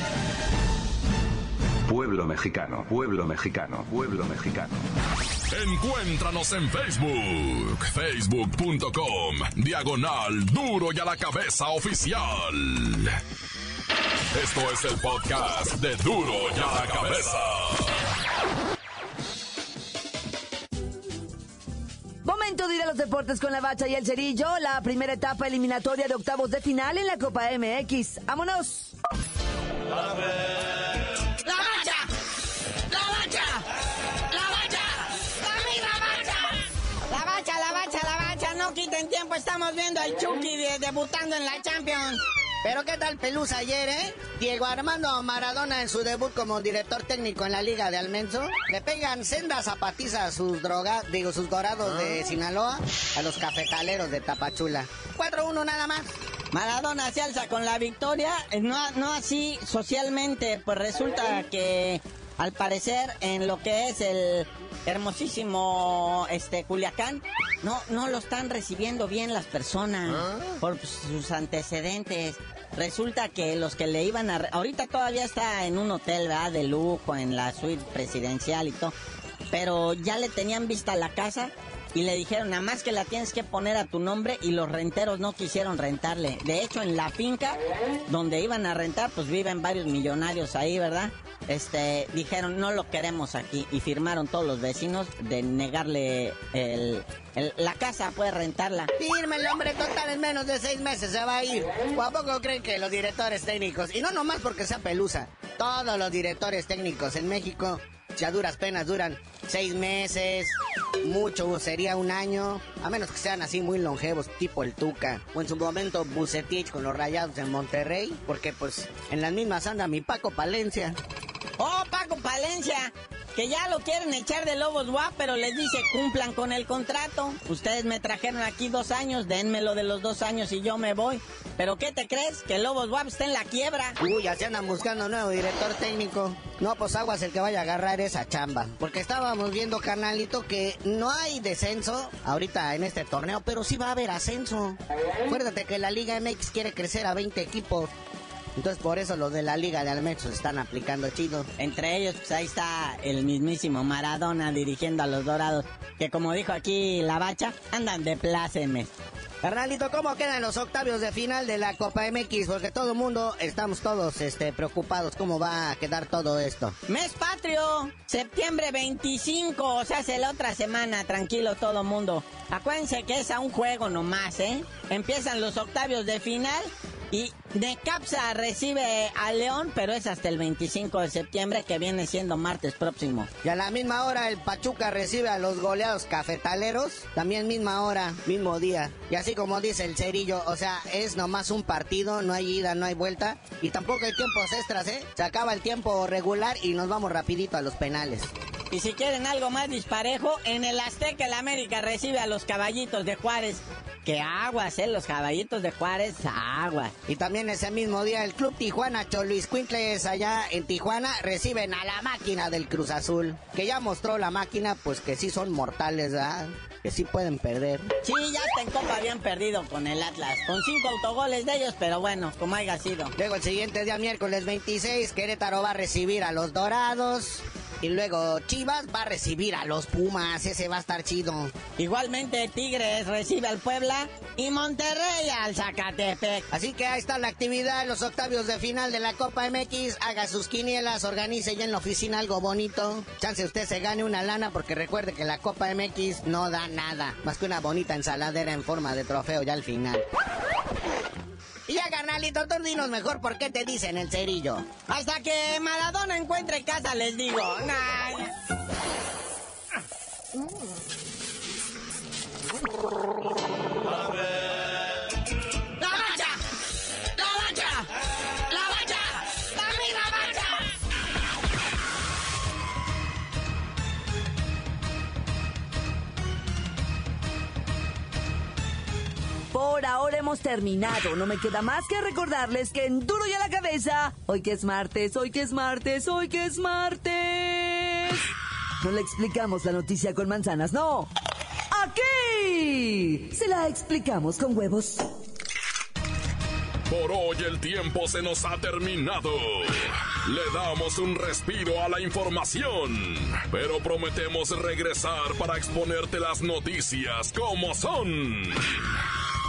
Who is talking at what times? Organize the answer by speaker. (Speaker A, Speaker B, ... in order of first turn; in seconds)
Speaker A: 1.9-4.8
Speaker B: 5.5-13.2, 14.3-18.0, 296.9-309.1
Speaker C: 22.2-28.9, 279.5-288.3, 288.8-291.1, 291.7-295.0
Speaker D: 31.4-32.1, 32.9-33.7, 34.3-36.6, 37.1-42.2, 56.5-78.9, 79.5-98.9, 121.6-134.0, 151.6-158.9, 166.9-183.3, 198.7-206.9, 218.0-223.1, 231.8-236.4, 254.9-258.3, 265.8-266.4, 267.2-267.9, 268.5-270.5
Speaker E: 42.6-56.1, 99.0-121.0, 134.0-147.9, 148.6-151.5, 159.4-166.8, 183.4-198.3, 207.1-217.9, 223.2-231.6, 236.5-250.1, 251.7-254.7